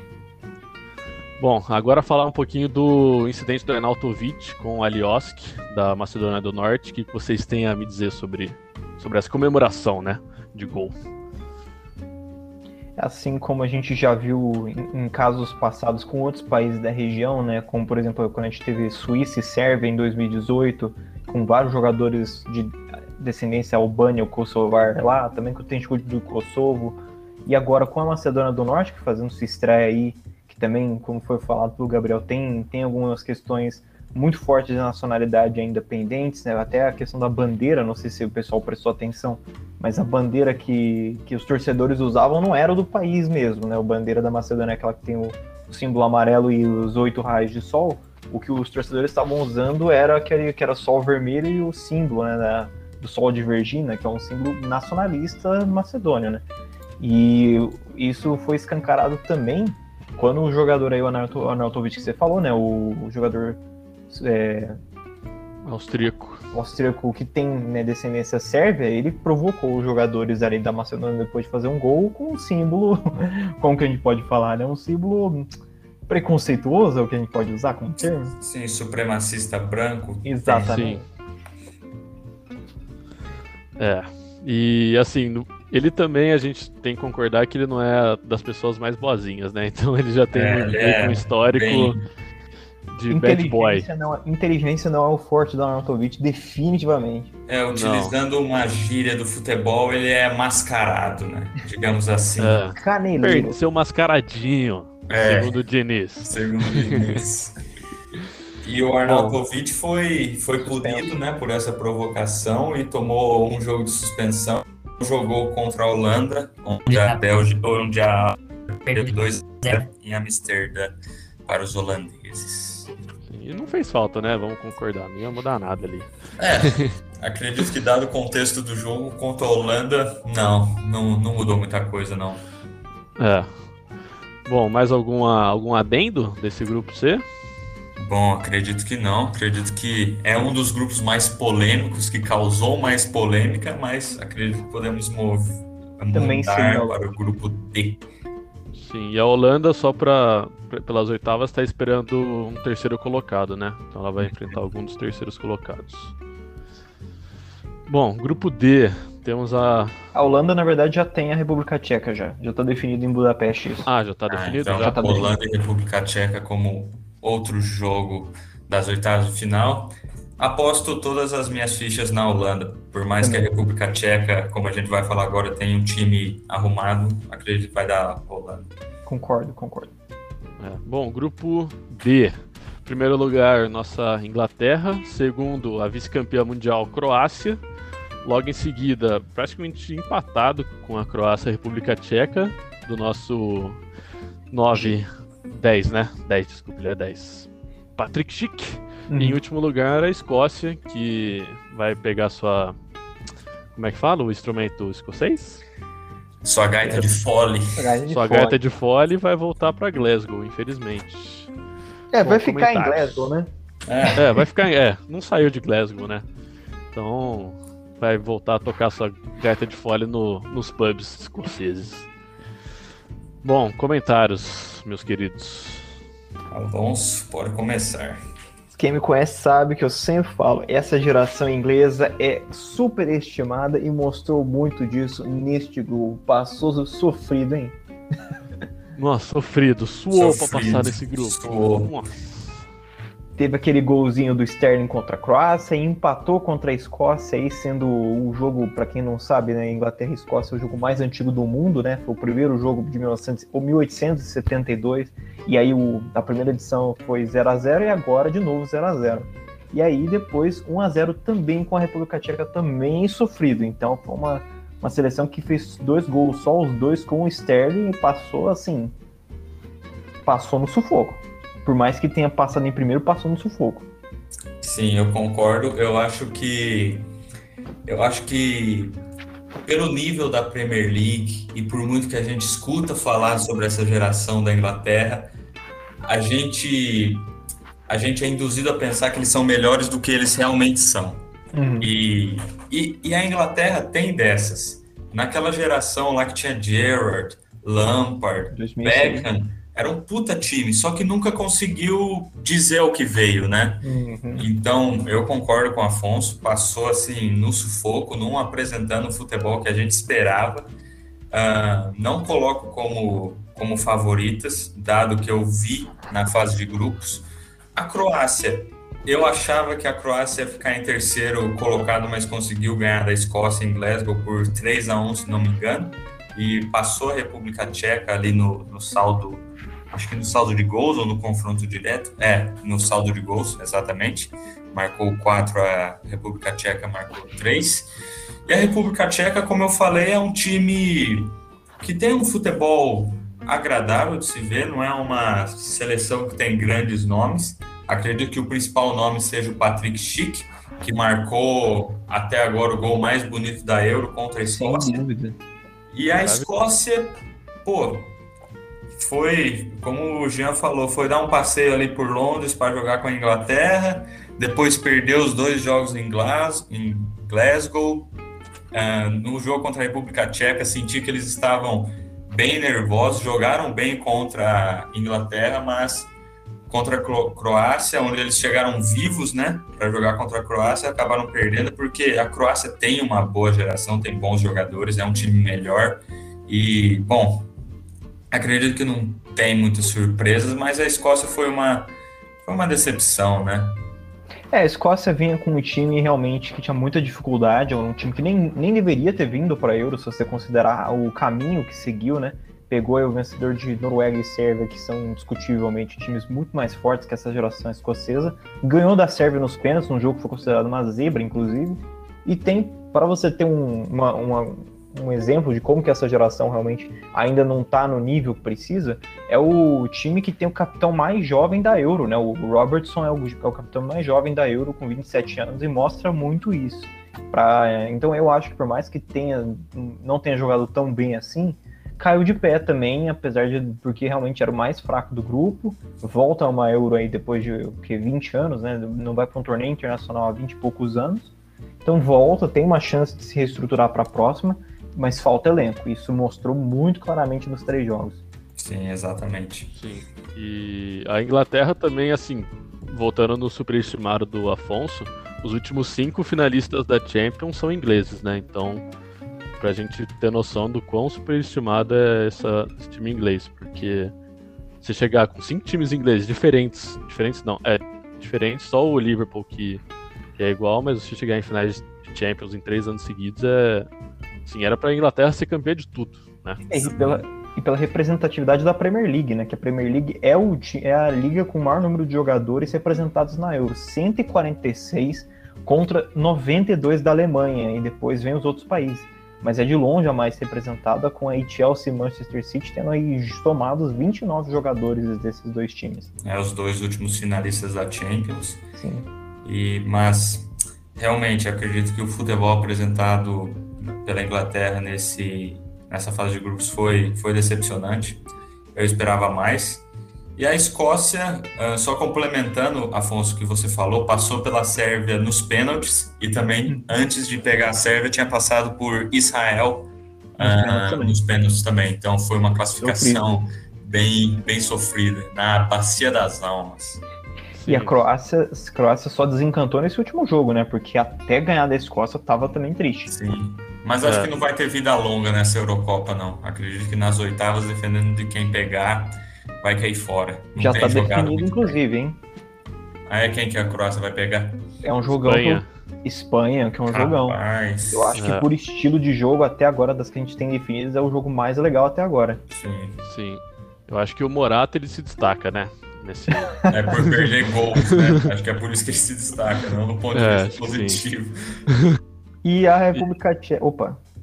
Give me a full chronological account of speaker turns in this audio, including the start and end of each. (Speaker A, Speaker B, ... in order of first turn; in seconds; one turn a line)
Speaker A: 1.4-10.9
Speaker B: 13.0-56.4
Speaker B: 57.0-64.8
Speaker A: 65.7-66.4
Speaker B: 66.5-75.5
Speaker B: 76.1-78.3
Speaker C: 78.4-80.9
Speaker B: 80.2-81.0
Speaker A: 80.7-81.0
Speaker A: 83.8-92.0
Speaker C: 90.3-92.0
Speaker A: 92.9-93.9
Speaker B: 93.1-97.3
Speaker C: 97.5-102.6
Speaker A: 97.7-98.1
Speaker A: 102.4-107.2
Speaker B: 102.7-103.6
Speaker C: 105.1-105.6
Speaker C: 106.2-107.5
Speaker C: 108.6-120.9
Speaker B: 110.6-111.1
Speaker C: 121.5-122.9
Speaker A: 123.3-126.9
Speaker C: 126.4-132.4
Speaker A: 133.2-133.5
Speaker A: 134.4-137.2
Speaker C: 138.0-148.0
Speaker B: 146.1-147.0
Speaker A: 148.7-156.1
Speaker C: 154.2-154.6
Speaker A: 157.9-160.0
Speaker B: 160.1-163.9
Speaker A: 163.8-165.1
Speaker C: 164.3-178.7
Speaker B: 164.8-165.3
Speaker B: 173.2-173.5
Speaker B: 179.1-179.9
Speaker A: 180.6-187.6
Speaker A: 188.2-193.8
Speaker A: 194.5-195.1
Speaker A: 195.6-202.8
Speaker B: 199.1-199.4
Speaker A: 203.7-205.6
Speaker C: 206.4-207.9
Speaker B: 207.8-208.6
Speaker A: 208.1-211.5
Speaker B: 212.1-213.5
Speaker A: 212.2-213.3
Speaker C: 213.9-214.3
Speaker A: 214.2-216.2
Speaker A: 216.9-222.1
Speaker A: 223.4-225.9
Speaker C: 226.5-228.2
Speaker B: 228.7-237.7
Speaker A: 239.0-242.5
Speaker C: 240.1-241.9
Speaker B: 243.4-268.9
Speaker B: 270.2-273.9
Speaker C: 274.6-277.1
Speaker C: 277.9-279.0
Speaker C: 279.6-285.3
Speaker C: 286.0-287.3
Speaker C: 287.9-291.2
Speaker B: 291.5-291.9
Speaker C: 291.8-303.8
Speaker B: 298.5-299.3
Speaker B: 303.8-304.5
Speaker C: 304.4-310.7
Speaker C: 311.3-337.9
Speaker C: 338.5-355.0
Speaker B: 354.5-355.4
Speaker C: 355.9-358.1
Speaker A: 356.1-356.5
Speaker C: 358.9-368.1
Speaker C: 368.7-376.1
Speaker C: 376.7-387.5
Speaker C: 388.3-391.9
Speaker C: 392.4-393.8
Speaker B: 394.5-441.3
Speaker B: 441.8-448.2
Speaker C: 448.6-449.7
Speaker A: 449.7-458.8
Speaker A: 459.6-464.1
Speaker A: 464.8-469.8
Speaker A: 470.4-473.9
Speaker A: 474.4-477.0
Speaker B: 476.7-496.1
Speaker C: 476.9-477.1
Speaker C: 496.2-498.6
Speaker B: 498.8-499.1
Speaker C: 499.4-508.2
Speaker C: 508.7-527.0
Speaker B: 520.4-521.2
Speaker B: 522.8-523.3
Speaker A: 527.6-528.0
Speaker B: 527.7-533.1
Speaker C: 533.1-541.8
Speaker A: 534.0-534.3
Speaker B: 540.5-542.2
Speaker C: 543.1-544.6
Speaker B: 544.8-547.4
Speaker A: 545.1-545.7
Speaker C: 546.9-548.1
Speaker B: 547.9-552.4
Speaker A: 548.1-548.5
Speaker C: 552.5-553.0
Speaker A: 553.0-557.1
Speaker B: 556.5-556.8
Speaker C: 556.7-561.6
Speaker A: 557.8-558.3
Speaker A: 560.1-561.0
Speaker A: 561.7-562.0
Speaker B: 562.4-564.0